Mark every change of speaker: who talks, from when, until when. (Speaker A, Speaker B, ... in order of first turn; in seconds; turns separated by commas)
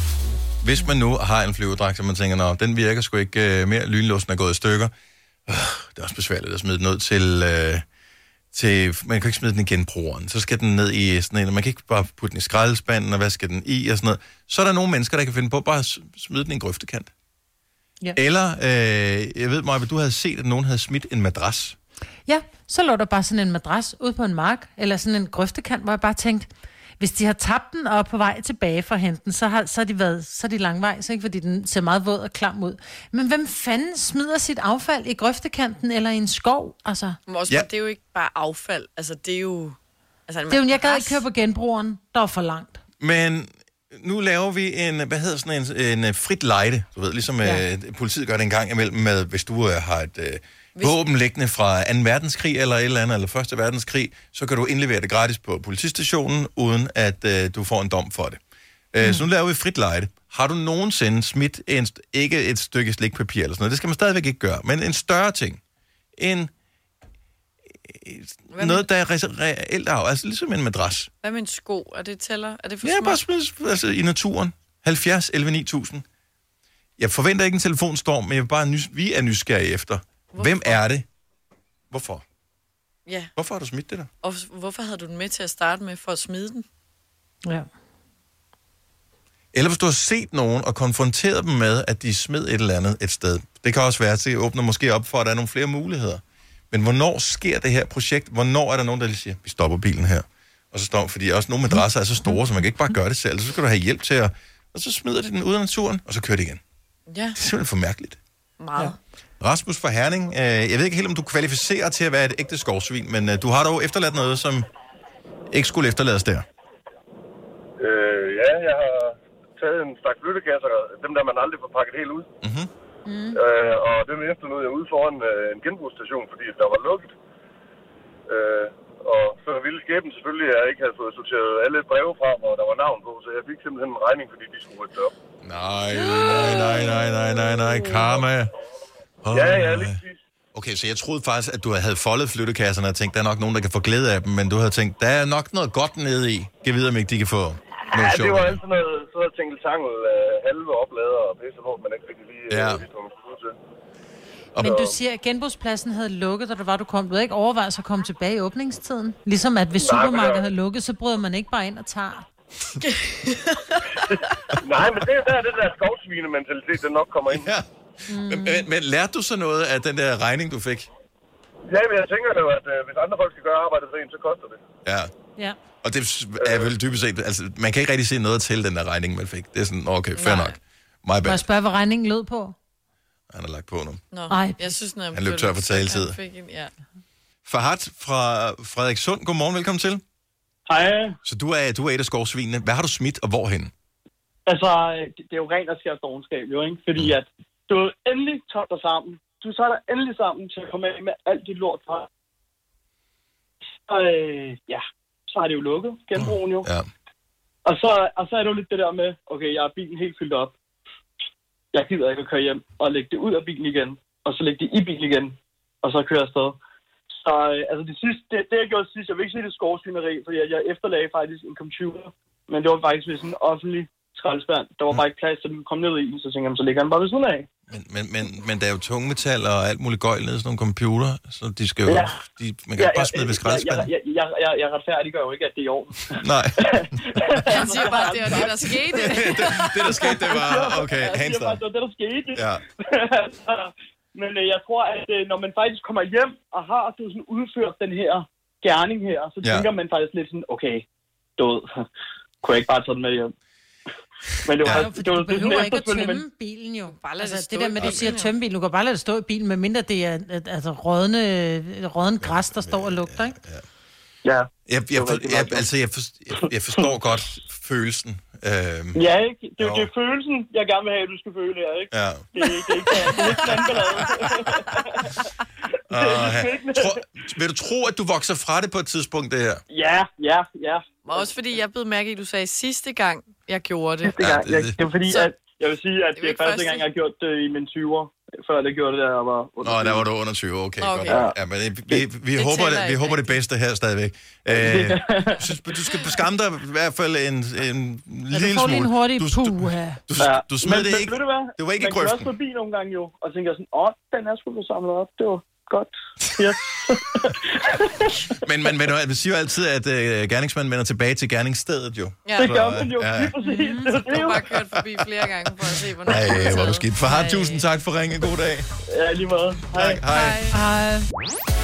Speaker A: 0.6-4.9, Speaker A: 5.5-7.8, Speaker A: 8.5-17.1, Speaker A: 18.1-21.8, Speaker B: 22.3-37.2, Speaker C: 37.3-41.2, Speaker B: 40.5-42.8, Speaker A: 43.0-58.4, Speaker A: 58.9-65.6, Speaker A: 66.2-66.5, Speaker A: 67.8-71.1, Speaker C: 68.5-68.9, Speaker C: 71.2-73.2, Speaker A: 72.8-76.0, Speaker A: 77.0-81.1, Speaker C: 80.3-80.8, Speaker A: 81.9-82.2, Speaker A: 83.4-84.1, Speaker C: 84.2-86.7, Speaker A: 89.5-106.6, Speaker C: 107.1-107.4, Speaker A: 107.4-108.2, Speaker C: 108.6-109.0, Speaker A: 109.4-114.7, Speaker A: 115.5-116.5, Speaker D: 117.8-122.3, Speaker A: 122.4-122.7, Speaker B: 123.1-123.4, Speaker D: 123.3-127.1, Speaker D: 128.3-135.1, Speaker A: 135.4-138.5, Speaker C: 136.2-137.7, Speaker A: 139.2-140.0, Speaker D: 139.3-140.2, Speaker A: 140.5-148.6, Speaker D: 147.9-153.6, Speaker A: 152.5-152.9, Speaker B: 154.6-162.3, Speaker D: 154.7-154.9, Speaker D: 159.7-160.4, Speaker D: 164.6-167.5, Speaker A: 167.3-170.9, Speaker B: 168.1-168.7, Speaker D: 171.7-174.6, Speaker A: 174.8-175.1, Speaker A: 175.8-181.5, Speaker D: 176.4-176.7, Speaker C: 180.2-180.6, Speaker B: 181.2-182.6, Speaker A: 183.3-184.0, Speaker C: 184.1-186.7, Speaker B: 184.3-184.8, Speaker A: 185.1-186.2, Speaker A: 187.5-190.0, Speaker E: 190.7-191.2, Speaker A: 191.2-193.7, Speaker E: 194.5-202.1, Speaker E: 203.9-206.7, Speaker A: 206.2-206.9, Speaker E: 207.7-210.6, Speaker E: 211.7-216.6, Speaker E: 217.1-227.5, Speaker A: 227.7-233.9, Speaker E: 231.9-232.2, Speaker E: 232.8-250.8, Speaker A: 236.2-236.6, Speaker C: 237.5-240.1, Speaker A: 238.9-241.6, Speaker A: 242.3-242.6, Speaker A: 249.4-249.7, Speaker E: 251.4-251.8, Speaker E: 252.4-253.3, Speaker E: 254.4-256.2, Speaker A: 254.6-254.9, Speaker B: 254.7-263.4, Speaker C: 256.9-258.4, Speaker A: 257.8-258.2, Speaker A: 262.2-263.6, Speaker E: 264.2-265.7, Speaker A: 264.7-269.0, Speaker E: 268.9-276.9, Speaker A: 269.6-269.9, Speaker A: 271.9-273.1, Speaker A: 275.9-279.6, Speaker E: 279.7-281.3, Speaker C: 281.0-284.2, Speaker E: 284.0-290.1, Speaker A: 284.2-284.8, Speaker C: 285.1-285.3, Speaker C: 286.2-286.8, Speaker A: 289.6-302.3, Speaker C: 290.8-291.3, Speaker E: 291.1-291.4, Speaker C: 292.3-293.4, Speaker E: 294.5-295.4, Speaker B: 298.3-300.0, Speaker E: 300.2-308.3, Speaker A: 308.3-313.4, Speaker E: 312.4-314.4, Speaker B: 313.4-313.9, Speaker C: 313.9-317.7, Speaker A: 316.1-318.7, Speaker E: 318.9-320.0, Speaker A: 319.7-320.4, Speaker C: 320.1-320.6, Speaker B: 320.5-321.1